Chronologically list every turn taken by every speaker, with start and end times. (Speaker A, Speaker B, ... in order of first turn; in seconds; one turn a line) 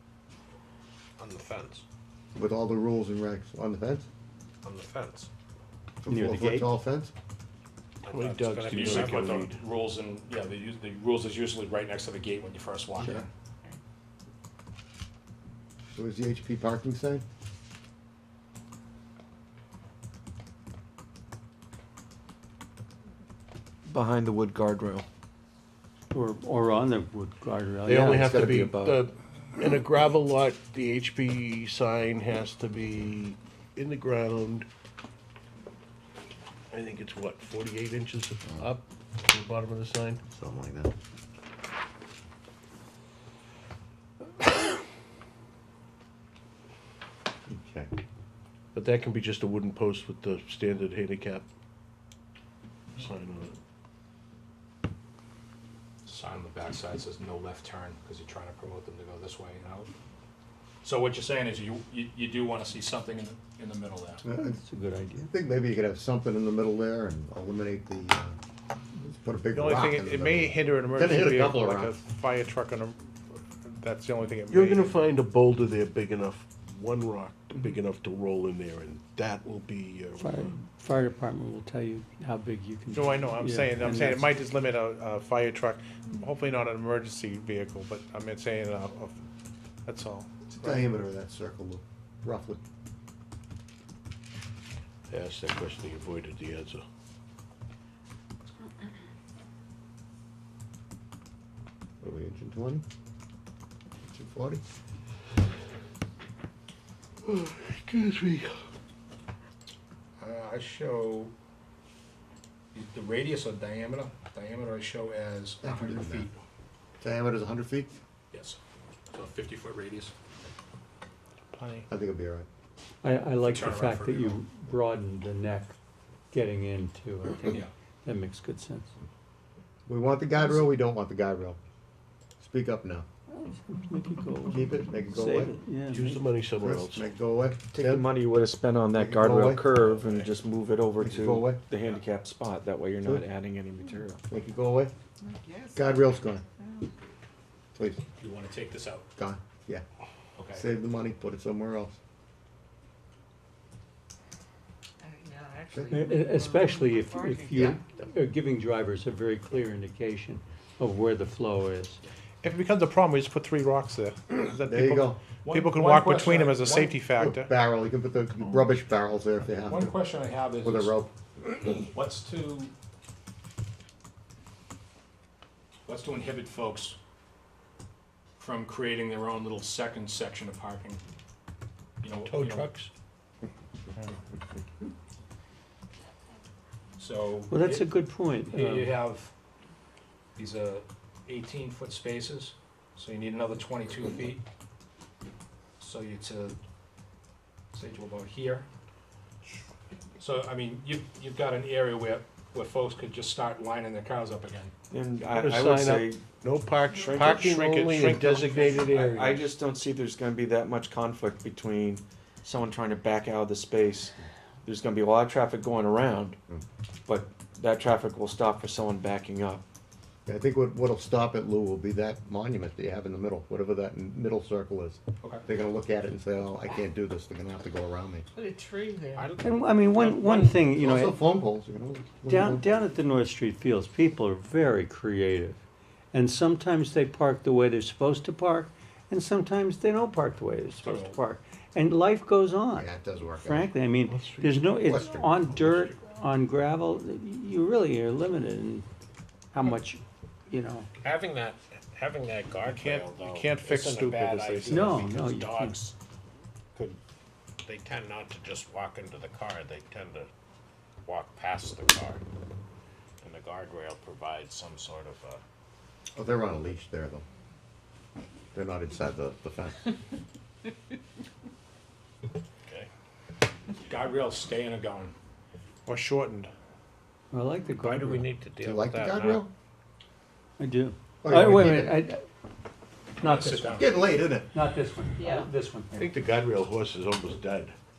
Speaker A: 1.2-1.8
Speaker B: 2.4-4.1
Speaker A: 4.6-5.3
Speaker B: 6.0-7.1
Speaker C: 6.1-6.8
Speaker A: 8.0-9.4
Speaker D: 8.1-9.6
Speaker E: 8.7-13.3
Speaker B: 13.0-13.2
Speaker B: 15.9-17.2
Speaker F: 23.9-25.1
Speaker C: 26.1-28.4
Speaker D: 27.9-34.7
Speaker F: 28.1-29.0
Speaker D: 36.7-40.2
Speaker B: 40.3-40.9
Speaker B: 47.5-47.9
Speaker D: 48.7-51.5
Speaker D: 53.0-53.6
Speaker E: 56.0-59.9
Speaker E: 60.8-64.2
Speaker B: 64.2-64.6
Speaker C: 64.4-65.3
Speaker B: 65.3-68.3
Speaker B: 69.0-72.0
Speaker G: 69.5-75.0
Speaker D: 74.5-80.6
Speaker C: 80.2-84.3
Speaker G: 82.9-89.2
Speaker G: 89.9-90.9
Speaker B: 90.5-92.6
Speaker D: 95.1-96.8
Speaker B: 102.0-102.8
Speaker B: 104.0-104.6
Speaker D: 107.2-108.7
Speaker E: 110.2-111.3
Speaker E: 112.7-116.3
Speaker B: 115.6-116.3
Speaker B: 117.0-118.0
Speaker E: 118.3-118.6
Speaker E: 119.1-120.1
Speaker G: 121.5-121.9
Speaker B: 121.9-122.5
Speaker C: 123.0-125.8
Speaker E: 123.4-124.4
Speaker C: 126.3-128.9
Speaker B: 129.9-131.6
Speaker B: 132.4-133.1
Speaker C: 133.3-136.2
Speaker B: 134.5-135.6
Speaker D: 135.9-137.1
Speaker B: 136.6-138.2
Speaker F: 137.7-144.2
Speaker B: 139.0-139.7
Speaker B: 141.0-141.6
Speaker B: 144.3-144.9
Speaker H: 145.3-146.9
Speaker B: 145.7-146.4
Speaker B: 147.8-148.0
Speaker E: 148.2-149.1
Speaker B: 149.2-149.8
Speaker E: 150.4-150.6
Speaker B: 150.5-152.0
Speaker H: 155.0-157.5
Speaker B: 155.7-156.1
Speaker C: 155.9-162.0
Speaker B: 157.5-157.8
Speaker G: 162.4-167.5
Speaker B: 164.7-165.2
Speaker E: 165.4-166.9
Speaker B: 167.0-170.0
Speaker E: 169.7-170.9
Speaker B: 170.6-171.1
Speaker E: 171.8-172.7
Speaker E: 175.9-177.0
Speaker E: 178.4-181.0
Speaker E: 182.0-182.7
Speaker D: 182.2-182.9
Speaker E: 187.0-187.9
Speaker C: 187.5-189.0
Speaker E: 188.5-189.3
Speaker E: 190.4-194.4
Speaker E: 195.8-196.6
Speaker E: 197.7-198.7
Speaker E: 200.2-204.7
Speaker F: 204.9-206.2
Speaker D: 205.3-209.5
Speaker F: 207.0-207.4
Speaker G: 207.3-208.8
Speaker F: 208.9-214.1
Speaker F: 214.6-216.4
Speaker F: 217.1-219.6
Speaker B: 220.3-228.2
Speaker H: 228.4-229.2
Speaker A: 229.2-230.7
Speaker C: 229.4-231.2
Speaker B: 230.8-232.7
Speaker C: 232.3-235.6
Speaker C: 236.1-248.9
Speaker E: 240.8-241.2
Speaker B: 242.7-243.7
Speaker D: 244.1-244.9
Speaker B: 244.9-245.3
Speaker C: 249.5-250.9
Speaker A: 251.0-255.9
Speaker G: 252.7-255.0
Speaker C: 254.7-255.8
Speaker A: 257.6-260.3
Speaker A: 261.1-262.2
Speaker A: 263.2-265.4
Speaker B: 266.1-267.2
Speaker B: 268.5-269.9
Speaker E: 273.9-275.1
Speaker G: 275.9-276.5
Speaker C: 277.3-278.3
Speaker A: 277.8-279.5
Speaker B: 278.6-279.5
Speaker C: 280.6-282.2
Speaker B: 281.2-282.0
Speaker C: 283.2-283.9
Speaker E: 283.2-284.1
Speaker B: 283.8-284.5
Speaker C: 284.5-286.1
Speaker D: 285.9-287.8